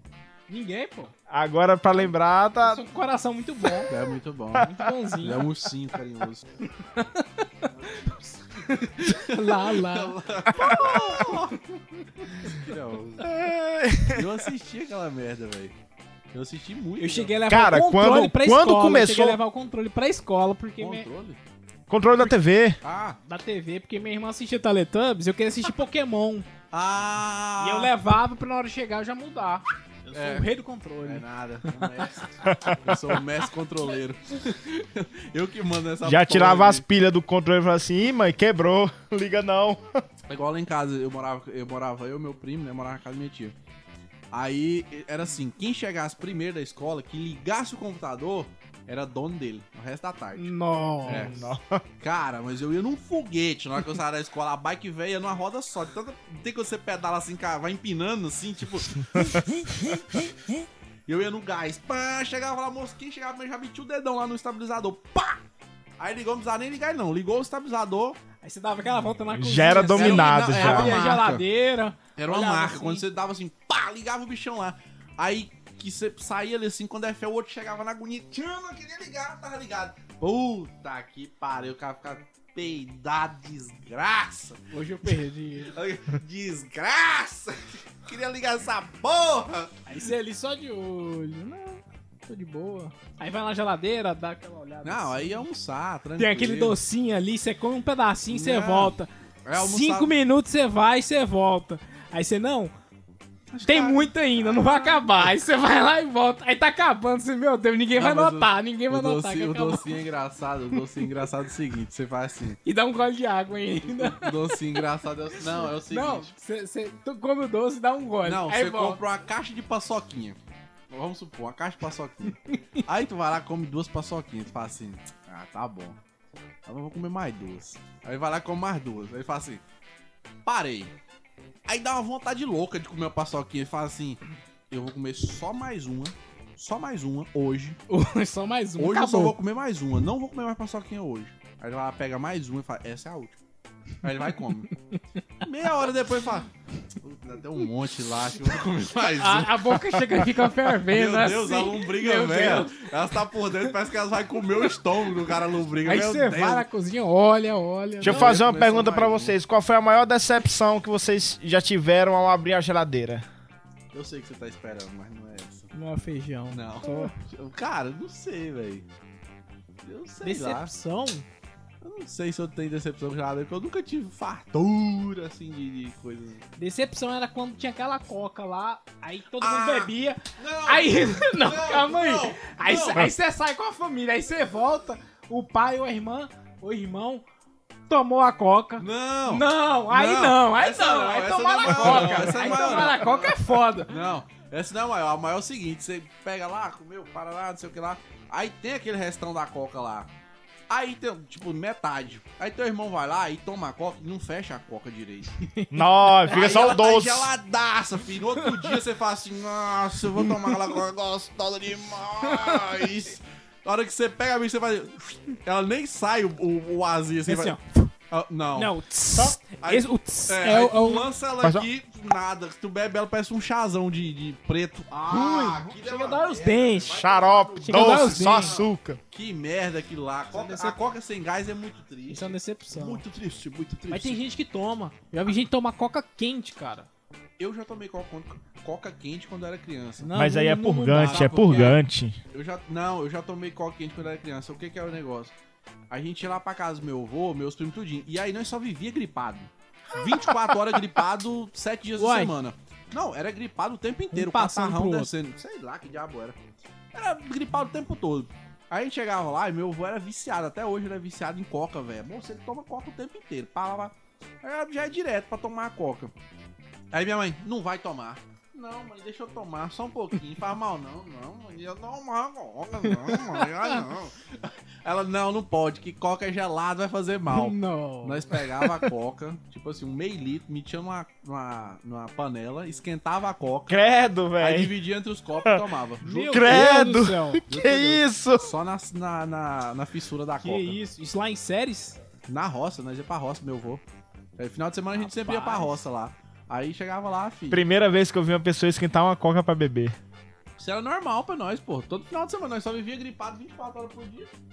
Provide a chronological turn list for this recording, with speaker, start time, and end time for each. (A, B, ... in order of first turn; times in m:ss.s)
0:00.5-0:01.1 A
0:01.3-0:02.8 B
0:02.6-0:03.9 A
0:03.9-0:06.5 C
0:04.6-0:05.5 A
0:06.8-0:07.9 A
0:07.7-0:11.7 C
0:08.6-0:11.3 A
0:10.7-0:11.1 B
0:12.2-0:13.3 C
0:13.2-0:14.4 B
0:14.1-0:15.8 C
0:16.3-0:17.3 C
0:17.0-0:21.1 A
0:17.5-0:19.4 B
0:20.8-0:21.4 C
0:21.9-0:22.8 B
0:22.8-0:23.2 C
0:23.3-0:26.5 A
0:26.7-0:27.9 C
0:27.6-0:32.3 A
0:30.1-0:30.5 C
0:31.0-0:36.8 C
0:32.5-0:32.8 B
0:36.0-0:40.0 B
0:40.3-0:43.6 C
0:44.3-0:50.5 C
0:50.4-0:51.5 A
0:51.1-0:51.4 C
0:51.1-0:51.8 B
0:52.0-1:00.3 C
1:01.1-1:05.4 C
1:06.0-1:08.2 C
1:08.4-1:13.0 A
1:09.4-1:10.9 B
1:09.9-1:11.4 C
1:12.2-1:25.1 C
1:24.7-1:25.8 A
1:25.7-1:29.8 C
1:29.9-1:35.4 A
1:34.8-1:36.8 C
1:36.2-1:42.7 A
1:38.3-1:40.1 C
1:43.5-1:45.0 C
1:43.6-1:50.0 A
1:48.0-1:52.6 C
1:52.6-1:54.8 A
1:53.9-1:56.3 C
1:55.5-1:59.0 A
1:58.2-2:00.4 C
2:00.9-2:06.0 C
2:06.7-2:09.6 C
2:10.4-2:10.9 C
2:11.7-2:17.8 C
2:17.9-2:19.4 A
2:18.8-2:23.4 C
2:24.0-2:24.7 C
2:25.4-2:26.5 C
2:27.0-2:29.6 C
2:29.1-2:32.9 A
2:30.9-2:36.6 C
2:35.8-2:38.4 A
2:38.0-2:43.3 B
2:38.0-2:39.4 C
2:43.9-2:45.7 C
2:45.7-2:47.1 A
2:46.5-2:48.9 C
2:49.8-2:50.7 C
2:50.2-2:51.2 A
2:51.8-2:56.4 C
2:56.6-3:07.2 A
2:59.4-3:03.1 C
3:07.9-3:14.0 A
3:08.8-3:20.1 C
3:20.7-3:25.3 C
3:25.4-3:26.6 A
3:25.7-3:27.3 B
3:26.3-3:37.6 C
3:28.4-3:28.8 A
3:30.2-3:30.7 A
3:32.3-3:32.9 A
3:37.3-3:37.9 A
3:38.1-3:38.7 C
3:38.6-3:41.1 A
3:39.6-3:54.2 C
3:45.1-3:47.0 A
3:46.9-3:49.0 B
3:47.6-3:48.6 A
3:50.3-3:50.8 A
3:52.1-3:53.0 A
3:53.9-3:56.9 A
3:57.4-4:00.2 C
4:00.0-4:01.6 A
4:00.1-4:02.2 B
4:00.9-4:01.8 C
4:02.3-4:05.3 C
4:05.9-4:16.4 C
4:12.0-4:12.3 A
4:14.1-4:15.1 A
4:16.9-4:26.1 C
4:26.9-4:43.8 C
4:33.1-4:33.7 A
4:37.3-4:38.8 A
4:43.7-4:44.7 B
4:44.4-4:46.9 C
4:46.0-4:47.4 A
4:46.3-4:48.5 B
4:47.5-4:50.8 C
4:50.4-4:52.0 A
4:52.3-4:53.8 C
4:54.4-4:57.6 C
4:55.0-4:55.8 A
4:57.5-5:00.0 B
5:00.6-5:04.3 C